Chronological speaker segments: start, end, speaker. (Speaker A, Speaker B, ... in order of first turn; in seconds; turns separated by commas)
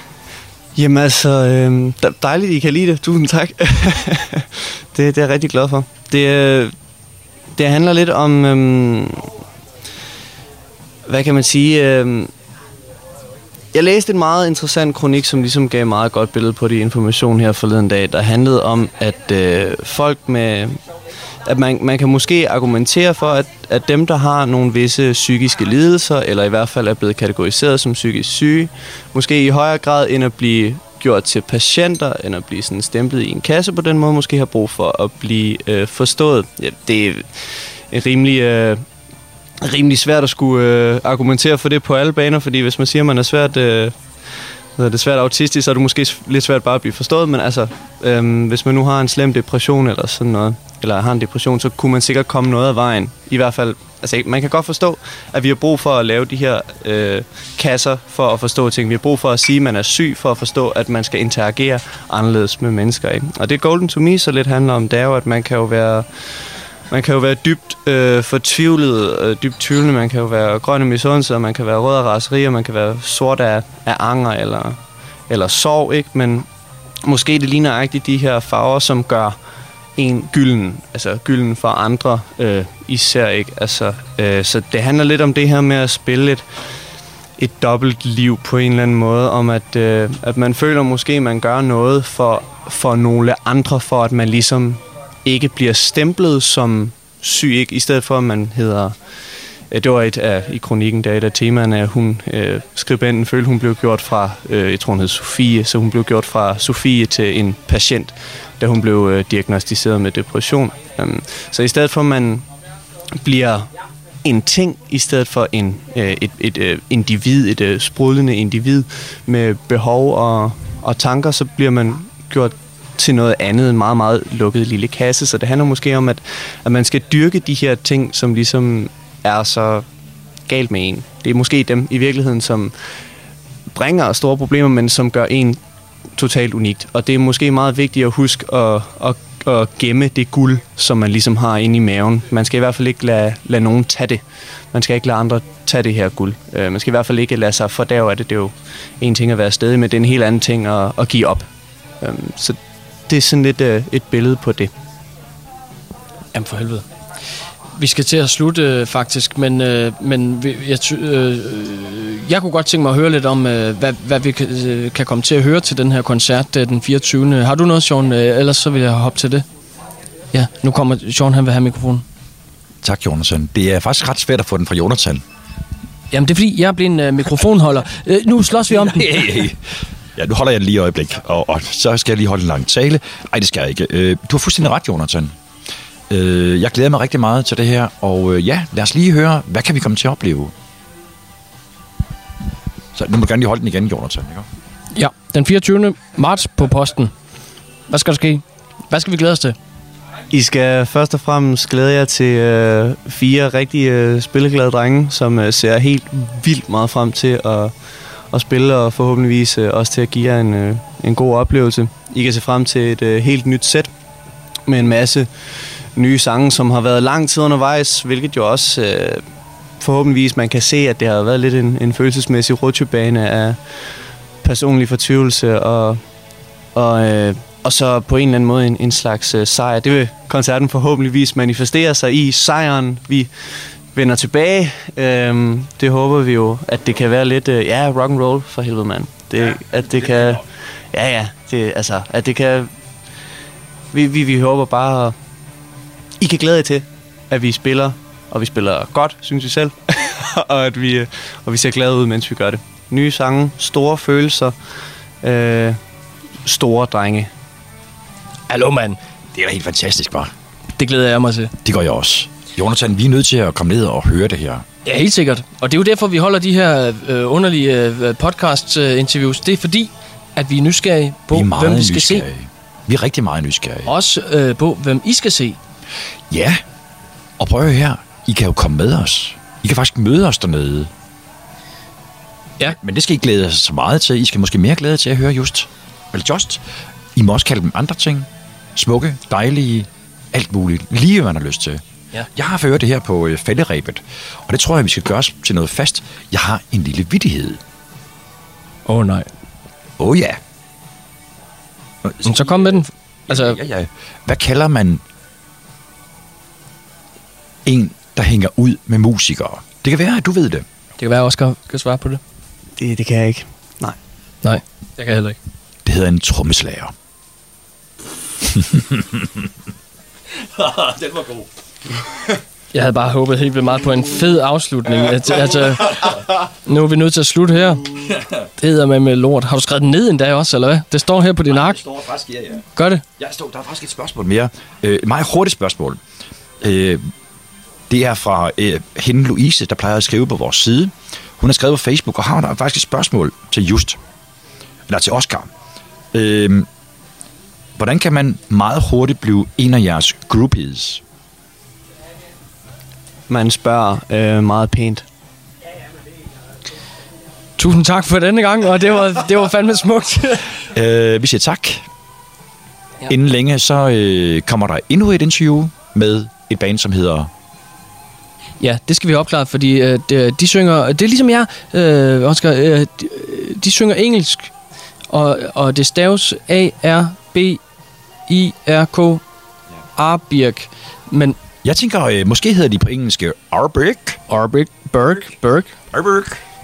Speaker A: 0.7-6.7, Speaker A: 7.5-9.3, Speaker A: 11.1-12.3, Speaker A: 13.7-20.8, Speaker A: 21.4-38.8, Speaker A: 39.6-44.0, Speaker A: 44.8-66.2, Speaker A: 66.9-76.5, Speaker A: 77.0-79.4, Speaker A: 80.0-86.4, Speaker A: 87.4-99.0, Speaker A: 99.7-112.4, Speaker A: 113.1-113.7, Speaker A: 114.2-129.8, Speaker A: 130.5-132.7, Speaker A: 133.7-135.6, Speaker A: 136.2-144.2, Speaker A: 144.7-151.5, Speaker A: 152.0-154.7, Speaker B: 156.3-156.8, Speaker B: 157.8-169.4, Speaker B: 170.3-172.0, Speaker C: 172.8-175.2, Speaker B: 176.1-179.3, Speaker C: 178.7-185.3, Speaker C: 186.1-190.5, Speaker C: 192.9-194.5, Speaker B: 194.9-197.1, Speaker B: 197.9-199.6, Speaker A: 200.3-207.7, Speaker A: 208.3-213.9, Speaker A: 214.7-215.3, Speaker A: 215.9-219.2, Speaker A: 219.8-223.6, Speaker A: 224.4-226.0, Speaker A: 226.7-233.3, Speaker A: 233.9-242.7, Speaker A: 243.9-245.2, Speaker A: 246.2-254.5, Speaker A: 255.2-255.8, Speaker A: 256.4-257.3, Speaker B: 258.5-259.0, Speaker C: 259.3-260.3, Speaker B: 260.8-261.5, Speaker C: 261.6-264.6, Speaker B: 264.8-272.2, Speaker C: 271.3-273.9, Speaker B: 273.9-275.6, Speaker C: 276.3-276.6, Speaker C: 277.4-280.9, Speaker C: 282.6-286.6, Speaker C: 287.1-291.8, Speaker C: 292.3-297.6, Speaker B: 298.9-299.3, Speaker C: 300.0-300.4, Speaker C: 302.0-305.0, Speaker B: 302.2-303.6, Speaker C: 307.6-310.6, Speaker B: 311.0-312.2, Speaker A: 312.8-314.0, Speaker B: 314.4-315.4, Speaker C: 315.8-316.9, Speaker C: 318.4-319.4, Speaker C: 320.4-321.5, Speaker B: 322.7-331.8, Speaker C: 328.1-328.4, Speaker C: 331.5-336.0, Speaker B: 332.8-333.0, Speaker C: 336.6-337.1, Speaker C: 337.9-344.0, Speaker C: 344.9-345.5, Speaker C: 346.1-346.7, Speaker C: 347.8-351.0, Speaker A: 353.3-355.1, Speaker B: 357.6-360.5, Speaker C: 360.7-361.9, Speaker C: 363.1-367.3, Speaker B: 368.6-374.5, Speaker B: 375.1-377.6, Speaker B: 378.3-379.2, Speaker B: 379.9-381.4, Speaker C: 381.6-384.2, Speaker B: 384.3-385.8, Speaker C: 385.9-386.4